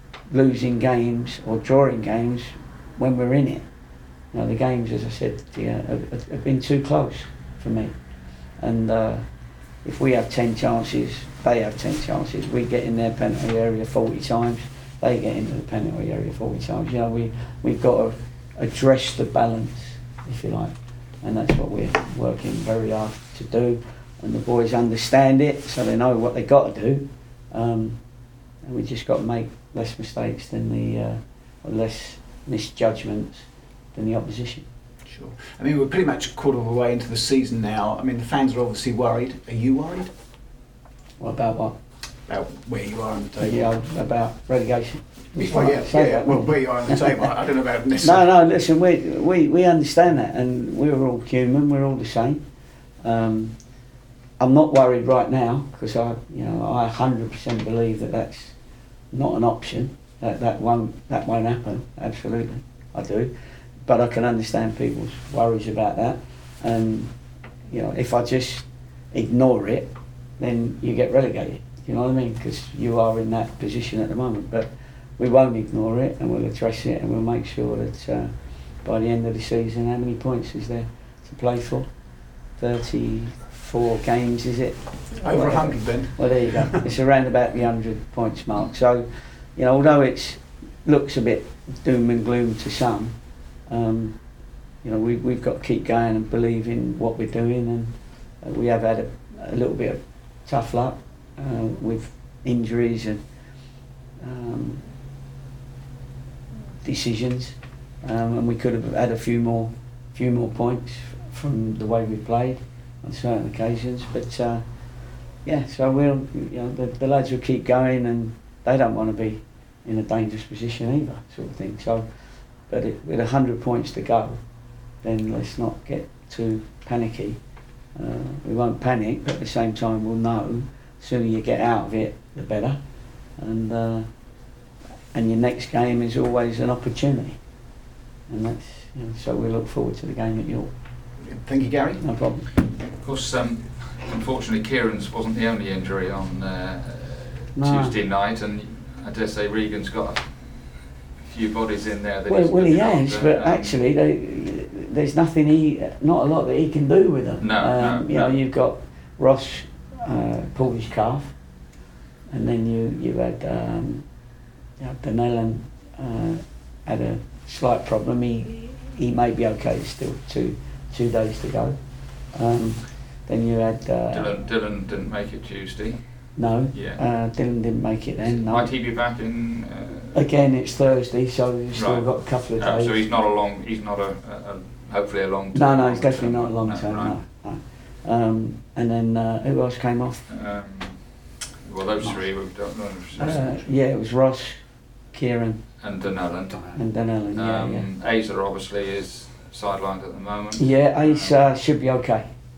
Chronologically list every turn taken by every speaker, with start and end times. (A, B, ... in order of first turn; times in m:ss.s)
0:00.3-0:03.7 A
0:04.3-0:28.0 A
0:28.6-0:34.7 A
0:35.1-0:40.1 B
0:41.2-0:41.8 A
0:42.3-0:43.8 B
0:43.4-0:47.3 A
0:45.4-0:48.3 B
0:48.0-0:53.7 A
0:54.4-0:58.6 A
0:59.1-1:07.2 A
1:07.7-1:43.2 A
1:25.1-1:26.8 B
1:44.2-1:44.9 A
1:46.8-1:54.9 A
1:55.4-2:04.4 A
2:05.0-2:07.4 A
2:07.9-2:12.8 A
2:13.4-2:14.1 A
2:15.1-2:17.4 A
2:18.3-2:20.8 A
2:21.2-2:22.1 B
2:22.0-2:22.5 A
2:23.0-2:33.8 C
2:27.6-2:28.0 A
2:32.3-2:41.4 A
2:37.4-2:38.4 C
2:42.3-2:44.1 A
2:44.8-2:54.4 A
2:54.1-2:57.0 C
2:56.4-2:58.7 A
2:58.2-3:00.2 C
3:00.1-3:03.0 A
3:01.8-3:07.2 C
3:05.5-3:10.3 A
3:10.3-3:13.6 C
3:12.0-3:15.8 A
3:13.2-3:13.7 B
3:15.8-3:16.8 C
3:16.7-3:17.9 A
3:17.3-3:21.4 C
3:20.6-3:22.4 A